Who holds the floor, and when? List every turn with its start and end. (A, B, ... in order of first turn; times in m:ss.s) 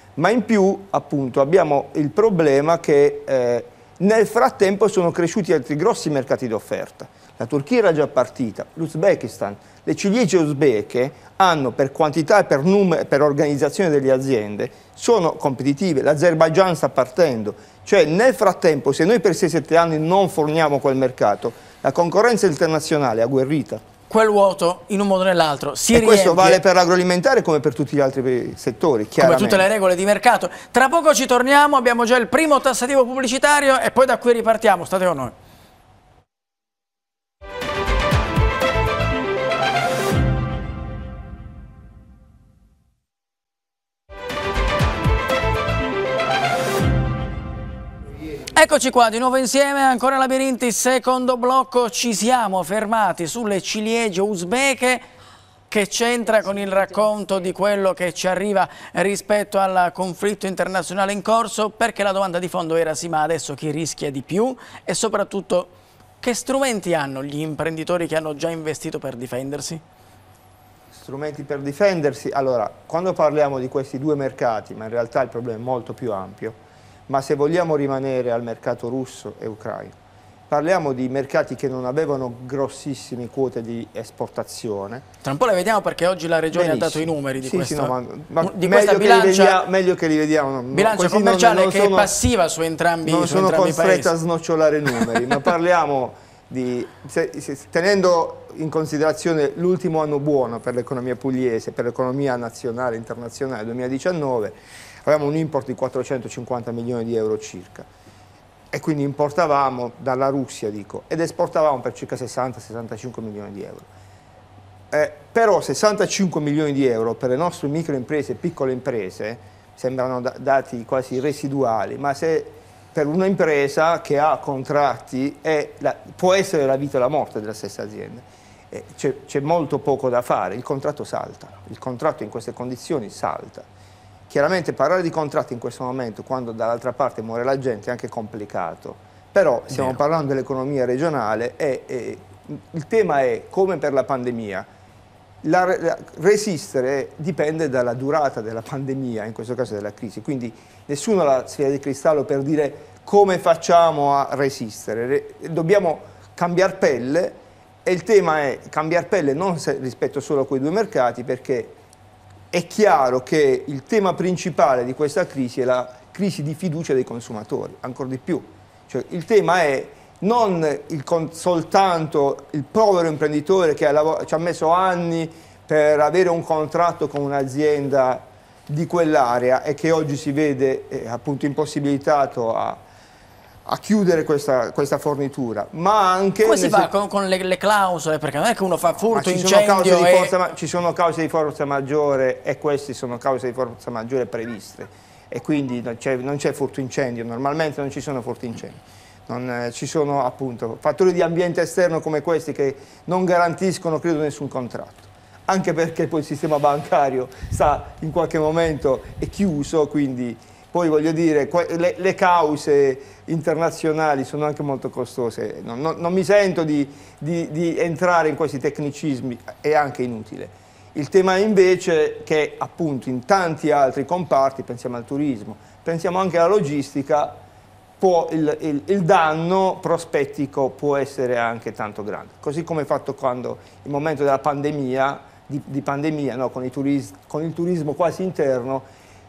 0:00.2-0:23.8 A
0:24.1-0:26.6 B
0:25.9-0:29.7 A
0:29.2-0:35.3 B
0:48.5-0:55.0 B
0:55.7-1:09.8 B
1:10.9-1:20.0 A
1:20.5-1:25.0 A
1:25.2-1:29.6 B
1:26.5-1:32.1 A
1:30.7-1:34.1 B
1:33.0-1:47.9 A
1:48.7-1:53.9 A
1:54.9-2:13.7 A
2:14.3-2:24.7 A
2:25.4-2:41.8 A
2:42.5-3:02.8 A
3:03.6-3:06.9 A
3:06.4-3:10.3 B
3:09.1-3:47.4 A
3:48.0-3:58.8 A